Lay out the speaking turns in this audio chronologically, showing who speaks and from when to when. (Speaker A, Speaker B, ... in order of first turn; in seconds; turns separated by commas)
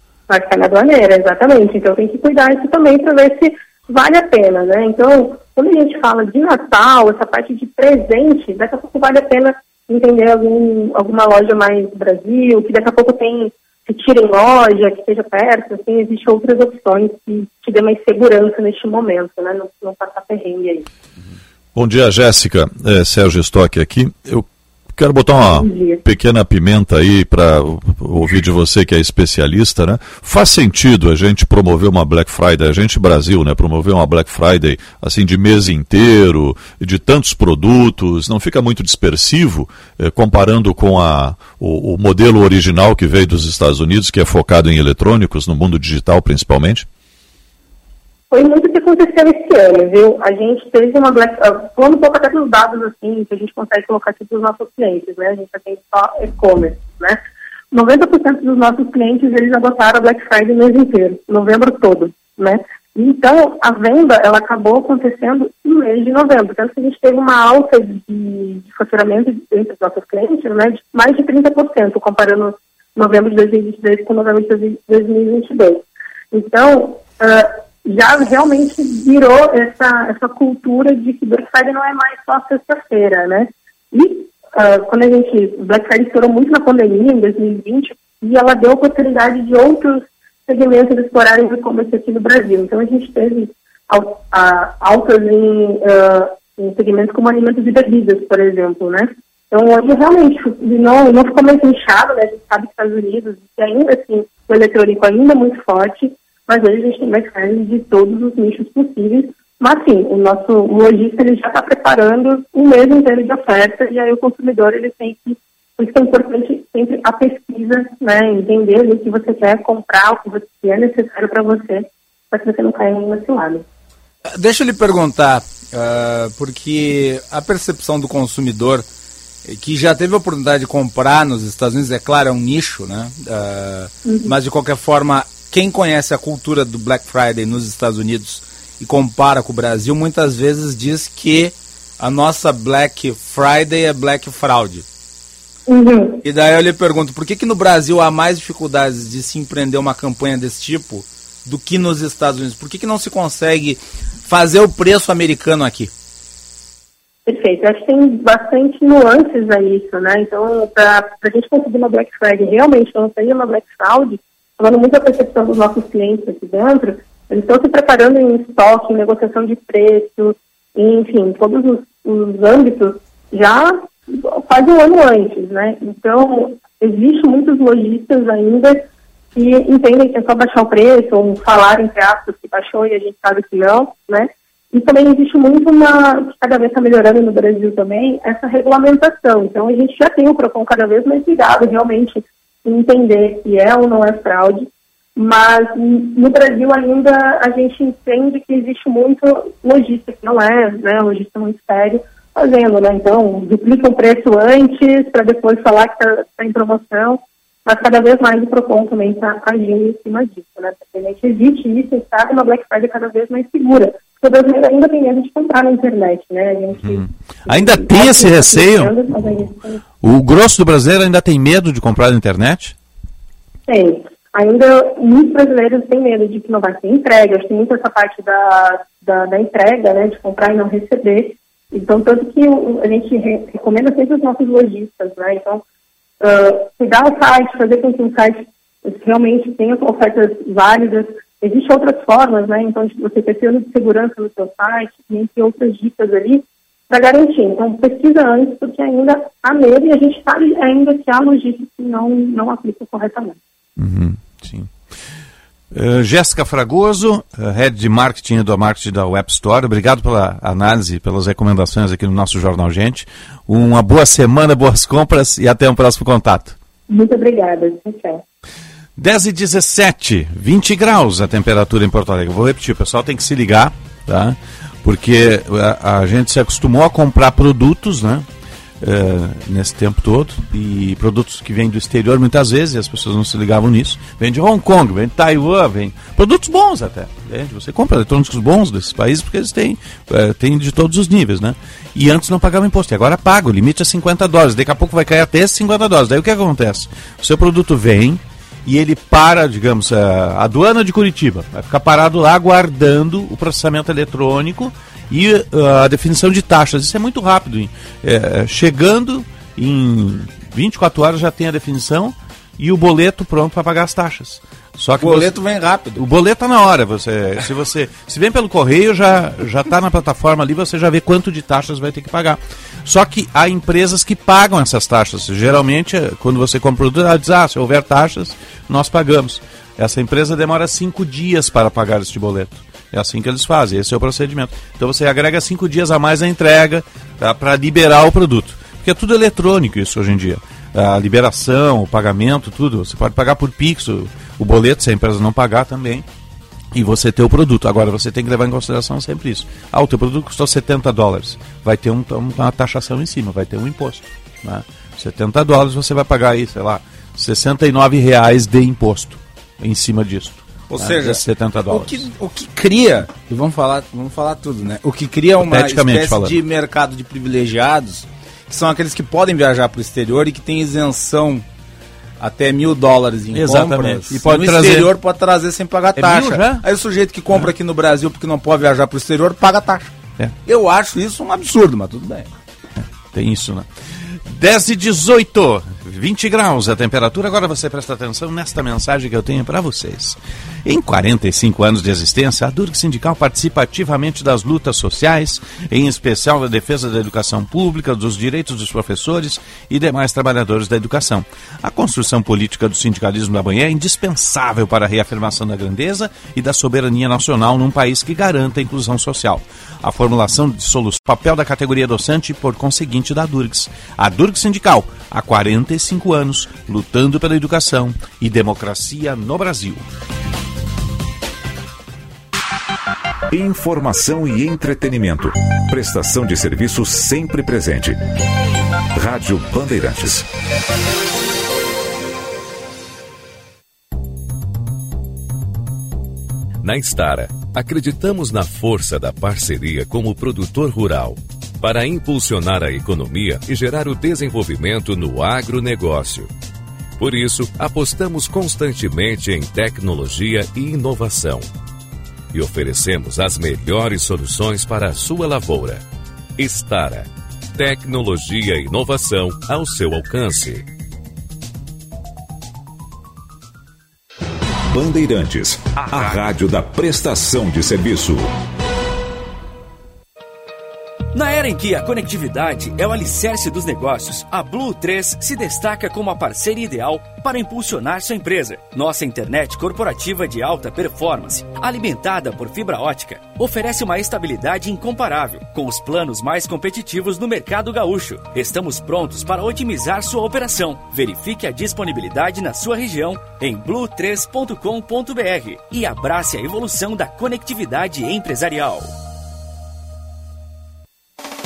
Speaker A: 0.3-20.9, Speaker B: 21.7-46.9, Speaker A: 25.5-26.0, Speaker A: 48.3-57.2, Speaker A: 57.7-123.6, Speaker C: 124.3-128.8, Speaker C: 129.4-144.8, Speaker A: 134.0-134.3, Speaker A: 145.7-146.2, Speaker C: 146.2-155.9, Speaker A: 157.2-178.8, Speaker A: 179.3-219.8, Speaker D: 216.8-218.9, Speaker D: 220.0-222.7, Speaker A: 223.7-235.6, Speaker A: 236.2-253.4, Speaker D: 253.8-254.7, Speaker D: 255.7-266.6, Speaker A: 266.9-268.2, Speaker D: 269.0-278.2, Speaker D: 278.8-315.3, Speaker C: 315.0-316.0, Speaker D: 316.0-346.1, Speaker D: 346.7-362.1, Speaker C: 360.7-371.4, Speaker D: 365.4-366.4, Speaker C: 372.2-379.9, Speaker D: 373.3-374.9, Speaker D: 375.9-376.6, Speaker C: 380.4-382.3, Speaker D: 382.8-383.7, Speaker D: 384.2-419.8, Speaker E: 423.3-428.0, Speaker E: 428.9-430.3, Speaker F: 436.6-446.3, Speaker F: 447.0-451.5, Speaker F: 452.3-455.8, Speaker F: 456.4-460.6, Speaker E: 464.7-468.3, Speaker G: 471.1-498.9